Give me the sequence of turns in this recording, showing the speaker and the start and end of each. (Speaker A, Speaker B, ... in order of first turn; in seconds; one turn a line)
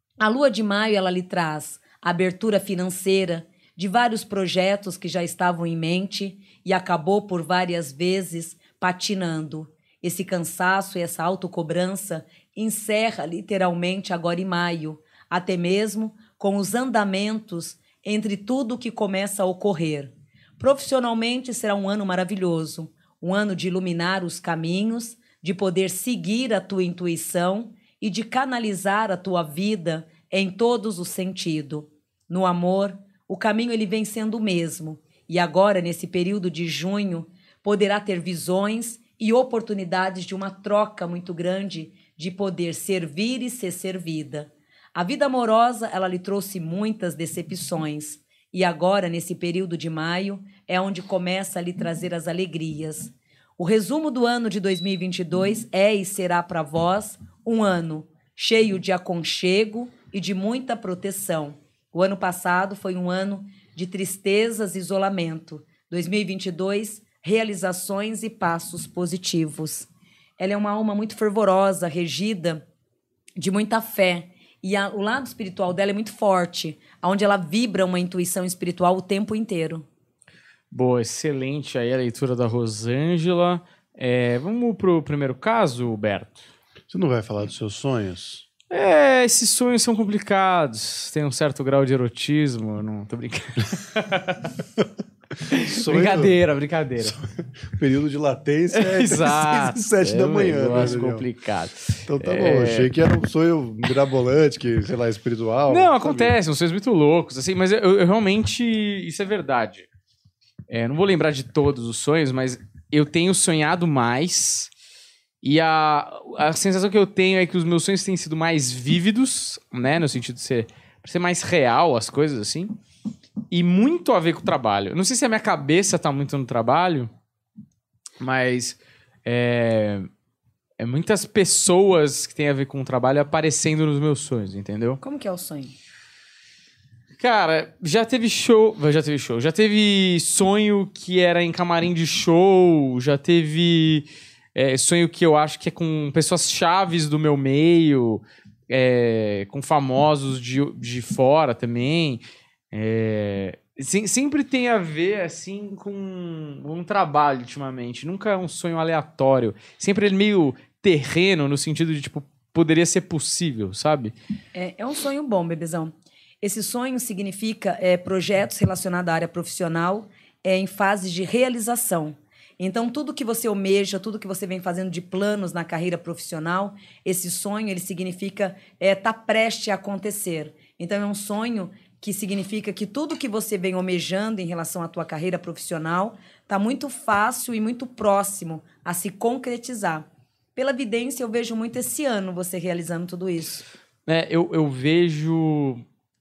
Speaker A: 0.2-72.6
Speaker A: 73.4-79.9
Speaker B: 80.7-86.5
Speaker C: 86.9-88.5
Speaker B: 88.7-94.5
Speaker B: 95.5-97.2
Speaker C: 95.7-96.4
Speaker C: 97.0-101.3
Speaker B: 98.7-102.9
Speaker C: 102.1-106.4
Speaker B: 105.7-109.9
Speaker B: 110.7-114.7
Speaker B: 115.4-122.8
Speaker B: 123.5-127.1
Speaker B: 128.2-130.1
Speaker B: 130.8-135.0
Speaker A: 135.0-135.7
Speaker B: 137.2-164.2
Speaker A: 164.5-193.7
Speaker B: 194.1-195.8